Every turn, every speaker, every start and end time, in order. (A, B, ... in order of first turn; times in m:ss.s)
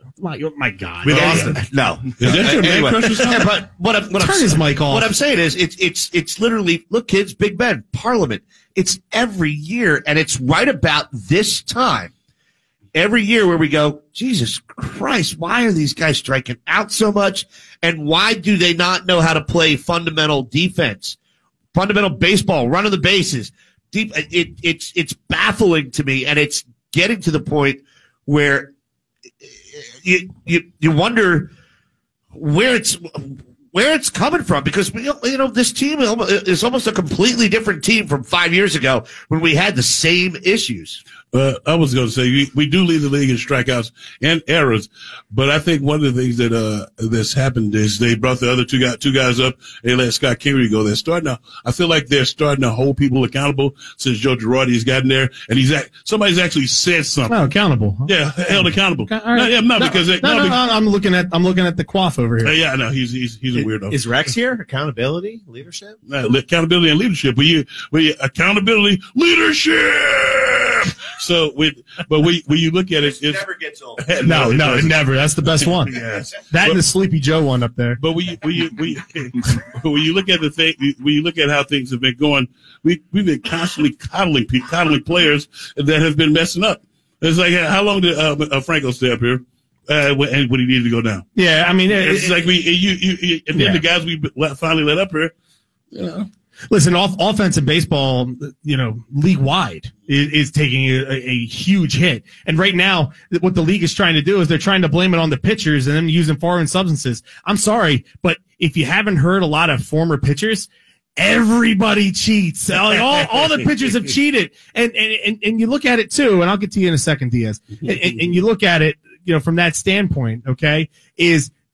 0:00.2-0:01.6 A
0:01.0-0:01.6 B
0:01.1-0:01.5 C
0:01.6-0:12.1 D
0:02.2-0:03.6 C
0:04.2-0:05.1 A
0:12.9-0:21.2 D
0:21.7-0:28.7 D
0:29.4-0:31.5 D
0:32.3-0:41.0 D
0:41.3-0:57.3 C
0:57.3-1:02.5 A
0:58.1-1:00.6 C
1:02.4-1:04.0 C
1:03.6-1:06.0 B
1:06.1-1:13.4 C
1:13.0-1:14.8 D
1:14.0-1:16.8 C
1:14.2-1:15.9 A
1:16.5-1:18.0 A
1:18.0-1:31.3 C
1:31.4-1:32.4 A
1:31.9-1:35.3 C
1:33.5-1:33.8 A
1:35.9-1:36.3 C
1:36.7-2:01.6 A